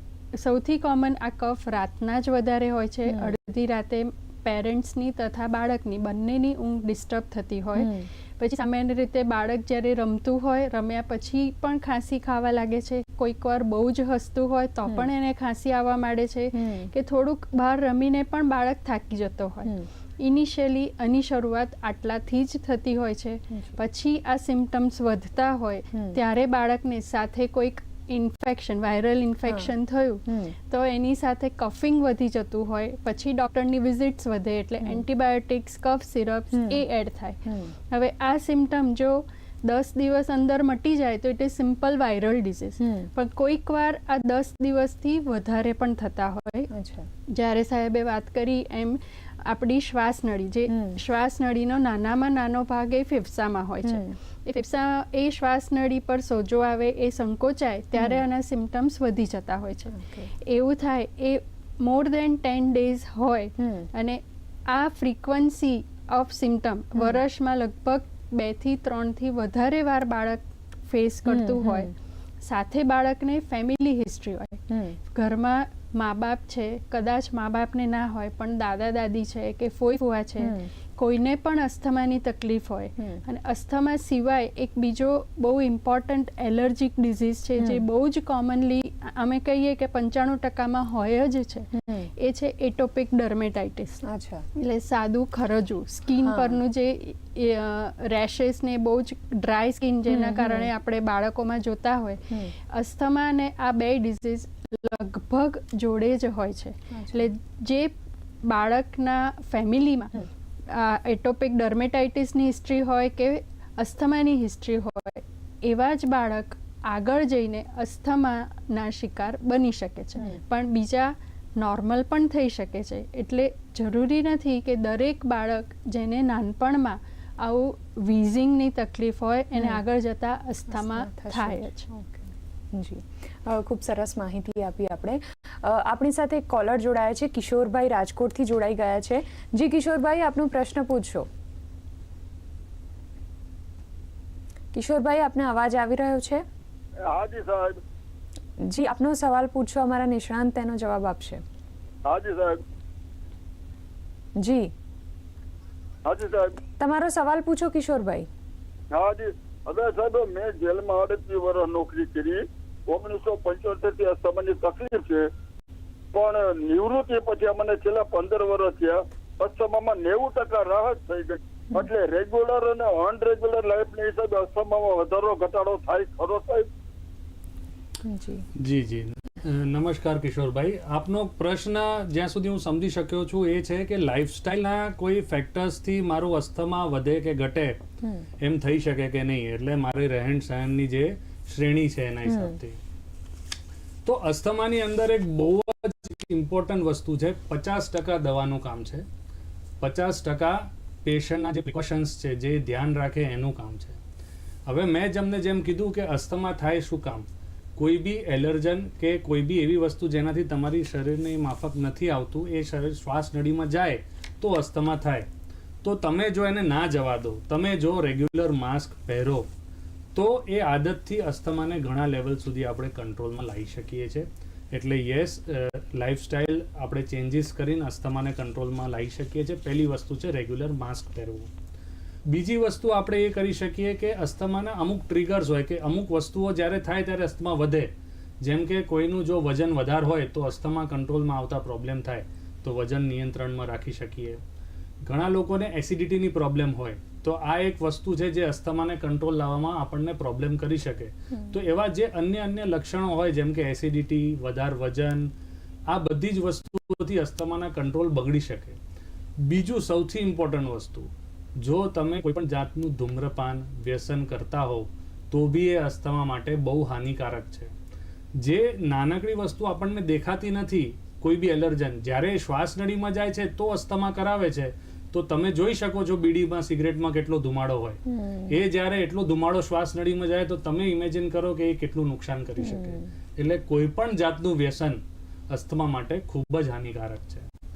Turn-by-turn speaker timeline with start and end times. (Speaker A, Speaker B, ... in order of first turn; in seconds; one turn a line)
Speaker A: 0.3-46.7
Speaker B: 3.1-3.3
Speaker B: 7.7-8.1
Speaker B: 16.5-16.9
Speaker B: 25.9-26.2
Speaker B: 29.5-29.7
Speaker B: 30.2-30.5
Speaker B: 36.5-36.8
Speaker B: 37.4-37.7
Speaker B: 42.8-43.1
Speaker B: 46.7-47.1
Speaker A: 47.3-71.9
Speaker B: 50.7-51.0
Speaker B: 53.8-54.1
Speaker B: 58.0-58.2
Speaker B: 59.9-60.3
Speaker B: 63.6-63.9
Speaker B: 71.2-71.9
Speaker A: 72.4-94.0
Speaker B: 74.7-75.0
Speaker B: 80.4-80.7
Speaker B: 87.6-87.8
Speaker B: 91.7-92.1
Speaker B: 94.0-94.4
Speaker A: 94.5-107.9
Speaker B: 96.2-96.6
Speaker B: 100.1-100.7
Speaker B: 106.9-107.3
Speaker A: 108.4-131.9
Speaker B: 129.6-129.8
Speaker B: 130.7-141.3
Speaker B: 144.7-146.4
Speaker C: 147.1-147.8
Speaker B: 148.6-151.4
Speaker C: 152.1-152.6
Speaker B: 154.4-154.7
Speaker C: 156.0-156.6
Speaker B: 156.8-158.3
Speaker C: 158.9-165.2
Speaker C: 166.1-176.7
Speaker B: 178.0-178.4
Speaker D: 178.6-187.8
Speaker B: 188.0-188.3
Speaker D: 188.4-192.8
Speaker B: 192.2-192.6
Speaker D: 194.0-199.1
Speaker D: 199.8-204.0
Speaker D: 204.7-215.3
Speaker D: 215.8-219.5
Speaker D: 220.1-231.5
Speaker D: 232.3-237.9
Speaker D: 238.4-244.4
Speaker D: 245.0-255.3
Speaker D: 255.9-258.8
Speaker D: 259.4-267.7
Speaker D: 268.4-287.5
Speaker B: 278.1-278.6
Speaker B: 282.6-283.0